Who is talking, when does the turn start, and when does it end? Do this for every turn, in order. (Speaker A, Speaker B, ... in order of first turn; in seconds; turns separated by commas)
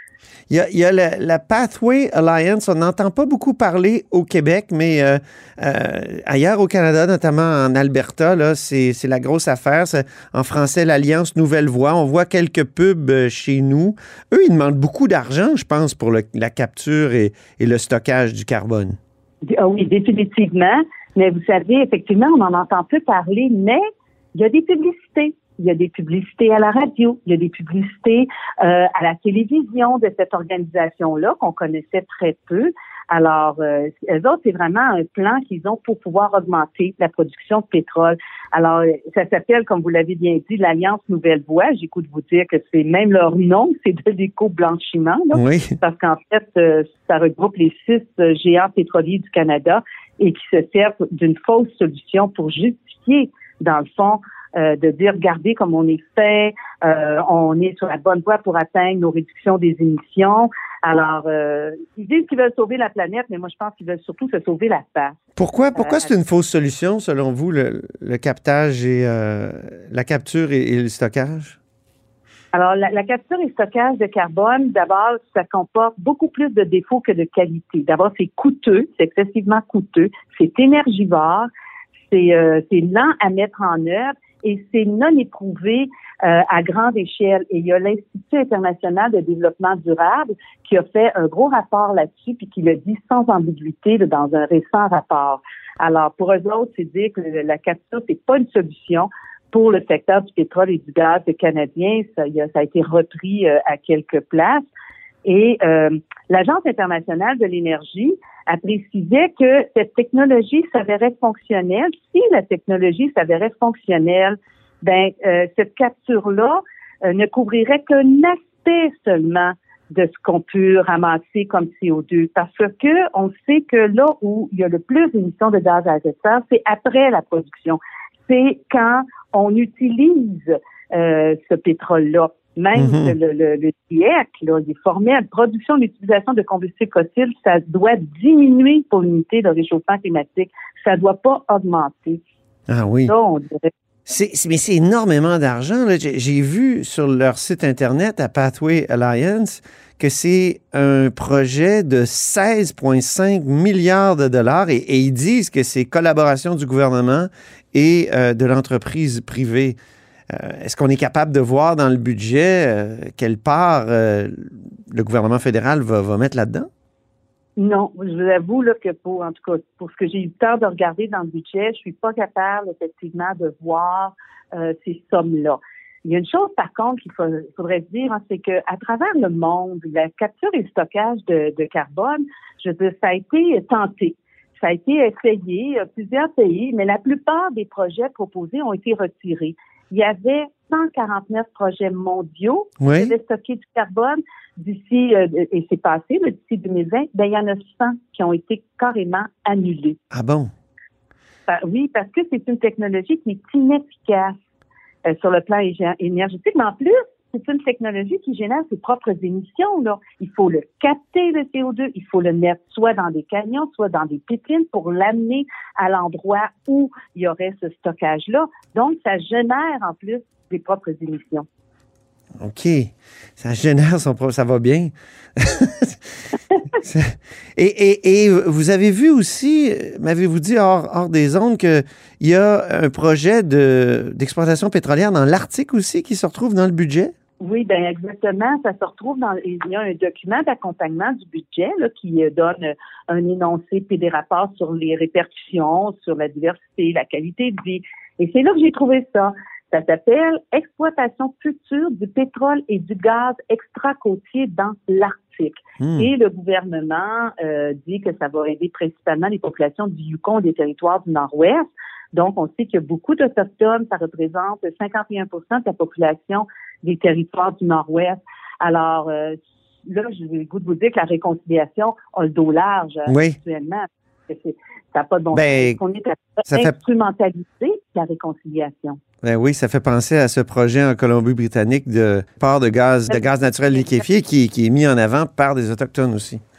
Speaker A: 0.5-19.0, Speaker B: 19.5-23.8, Speaker B: 24.3-65.2, Speaker A: 45.3-45.7, Speaker A: 65.3-71.6, Speaker B: 65.7-66.1, Speaker B: 72.5-81.5, Speaker B: 82.1-104.7, Speaker B: 105.2-142.2, Speaker A: 132.7-133.1, Speaker A: 142.7-143.1, Speaker B: 143.1-143.7, Speaker A: 144.1-159.8, Speaker A: 160.3-166.7, Speaker B: 167.6-200.0, Speaker A: 192.8-193.1, Speaker A: 200.1-200.5, Speaker B: 201.5-204.3, Speaker B: 205.1-221.4, Speaker A: 222.4-226.0, Speaker A: 226.8-237.1, Speaker B: 237.4-279.0, Speaker A: 255.8-256.1, Speaker A: 273.1-273.4, Speaker A: 275.3-275.8, Speaker A: 279.2-286.4, Speaker B: 283.7-284.0